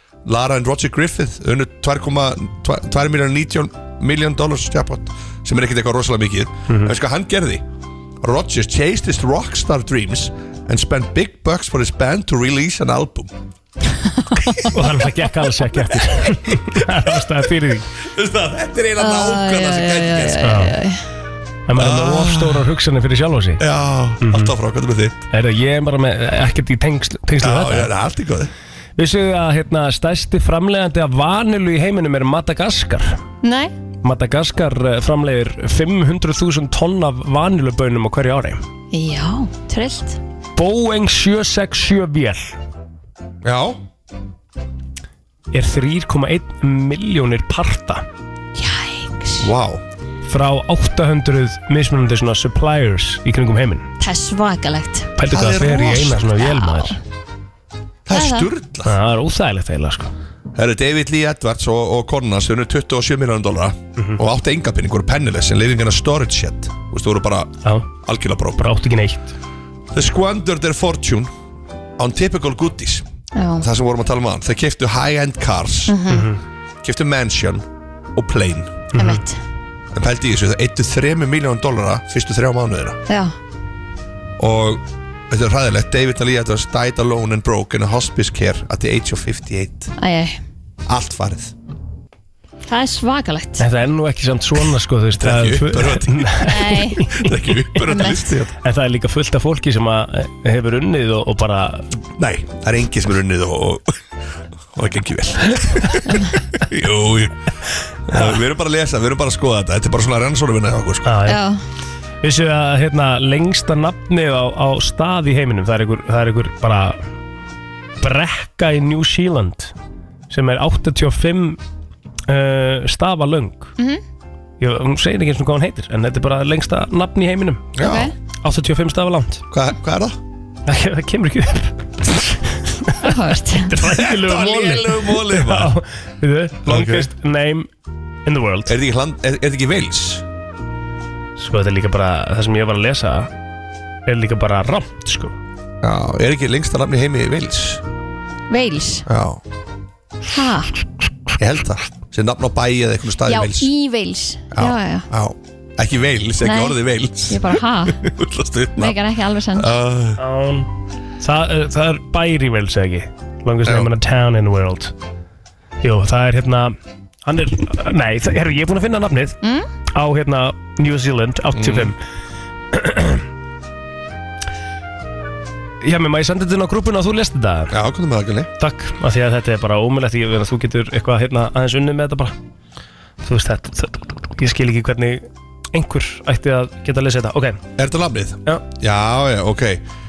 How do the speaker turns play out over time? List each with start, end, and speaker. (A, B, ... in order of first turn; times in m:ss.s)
0:00.3-0:07.6 A
0:06.7-0:07.0 B
0:08.2-0:13.3 A
0:14.6-0:15.0 A
0:14.7-0:17.9 B
0:16.8-0:17.0 A
0:18.0-0:20.5 A
0:19.0-0:21.0 C
0:20.4-0:20.8 B
0:21.7-0:23.6 B
0:21.8-0:22.7 A
0:23.6-0:25.2 A
0:24.2-0:24.5 B
0:25.3-0:27.9 B
0:27.4-0:28.5 A
0:29.0-0:33.2 B
0:33.4-0:33.7 C
0:34.0-0:38.6 B
0:38.9-0:40.2 C
0:40.6-0:42.6 B
0:43.4-0:43.8 A
0:45.5-0:48.0 B
0:48.6-0:49.5 C
0:49.4-0:49.8 A
0:50.3-0:53.9 B
0:54.0-0:57.0 C
0:55.2-0:57.0 B
0:55.3-0:56.2 A
0:58.1-0:59.0 A
0:58.1-0:58.5 C
0:58.8-1:00.1 B
1:00.5-1:08.6 A
1:07.6-1:07.9 B
1:08.6-1:09.3 B
1:09.9-1:11.3 A
1:12.0-1:13.0 A
1:13.4-1:13.7 C
1:13.6-1:16.0 A
1:15.9-1:16.3 C
1:16.1-1:16.4 B
1:16.8-1:18.9 A
1:18.9-1:19.2 B
1:19.0-1:19.4 C
1:19.9-1:23.0 A
1:23.1-1:23.3 C
1:24.4-1:29.9 A
1:30.0-1:30.4 C
1:30.9-1:31.5 A
1:32.7-1:33.7 C
1:33.6-1:37.5 B
1:35.2-1:36.5 A
1:36.4-1:37.1 C
1:37.1-1:38.5 A
1:37.9-1:38.3 C
1:38.6-1:41.9 B
1:42.2-1:44.0 A
1:44.7-1:47.5 A
1:48.1-1:51.2 A
1:48.1-1:48.4 B
1:51.0-1:51.4 B
1:51.3-1:51.6 C
1:52.2-1:57.0 B
1:58.0-1:59.7 B
2:00.3-2:01.6 B
2:02.3-2:03.7 B
2:04.6-2:07.6 B
2:07.8-2:08.1 A
2:07.8-2:08.1 C
2:08.4-2:09.4 B
2:09.5-2:10.2 A
2:10.7-2:17.7 B
2:13.0-2:13.7 C
2:13.8-2:15.7 A
2:16.6-2:17.1 A
2:18.2-2:18.8 B
2:18.7-2:20.2 A
2:21.4-2:23.3 B
2:24.1-2:25.4 B
2:25.8-2:27.8 A
2:28.5-2:29.0 C
2:29.1-2:29.4 A
2:30.3-2:30.7 C
2:31.4-2:33.7 A
2:33.2-2:35.1 C
2:34.5-2:39.0 A
2:36.4-2:38.0 C
2:38.8-2:39.7 C
2:40.2-2:44.9 B
2:45.8-2:49.4 B
2:49.4-2:49.7 C
2:49.9-2:52.0 B
2:51.5-2:51.9 A
2:52.7-2:53.2 B
2:55.8-2:57.7 B
2:57.7-2:58.5 A
2:58.6-3:02.4 B
3:03.2-3:07.6 B
3:07.8-3:09.8 A